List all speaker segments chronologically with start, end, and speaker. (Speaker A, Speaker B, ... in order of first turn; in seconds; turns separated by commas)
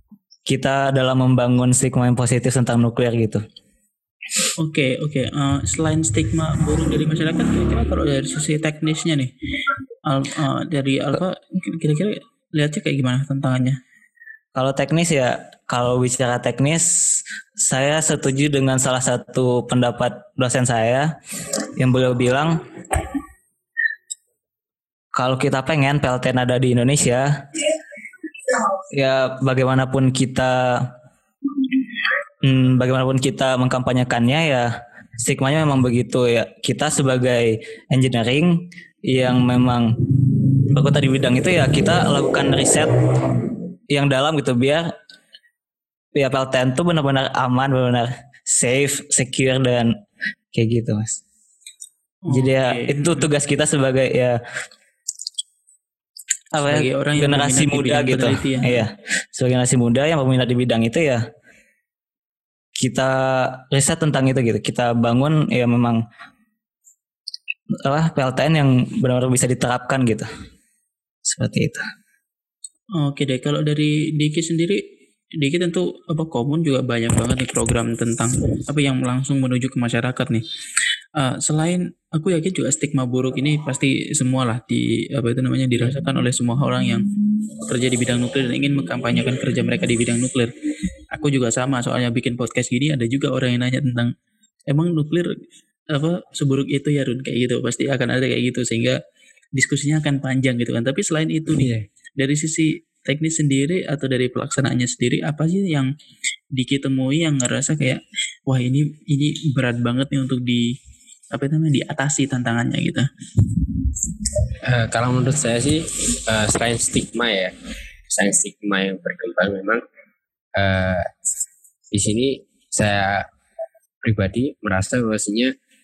Speaker A: 0.5-3.4, Speaker B: 4.6-9.3, Speaker B: 10.1-13.8, Speaker A: 14.5-21.1, Speaker A: 21.8-22.6, Speaker A: 25.1-27.3, Speaker A: 28.9-30.9, Speaker A: 32.4-40.0, Speaker A: 40.7-43.0, Speaker A: 43.9-44.9, Speaker A: 46.1-49.9, Speaker A: 50.5-51.2, Speaker B: 52.2-53.3, Speaker A: 52.3-54.4, Speaker A: 56.5-61.2, Speaker B: 56.6-58.8, Speaker A: 62.8-66.0, Speaker A: 67.8-70.3, Speaker A: 71.2-71.9, Speaker B: 73.0-74.8, Speaker B: 75.4-80.4, Speaker B: 81.2-87.1, Speaker B: 87.6-90.5, Speaker B: 91.1-94.1, Speaker B: 94.7-95.3, Speaker B: 95.9-99.0, Speaker B: 99.5-105.9, Speaker C: 101.5-101.8, Speaker B: 106.5-110.7, Speaker B: 111.3-113.1, Speaker C: 114.6-117.5, Speaker C: 118.1-119.8, Speaker C: 120.6-121.1, Speaker C: 121.9-123.3, Speaker C: 124.0-125.5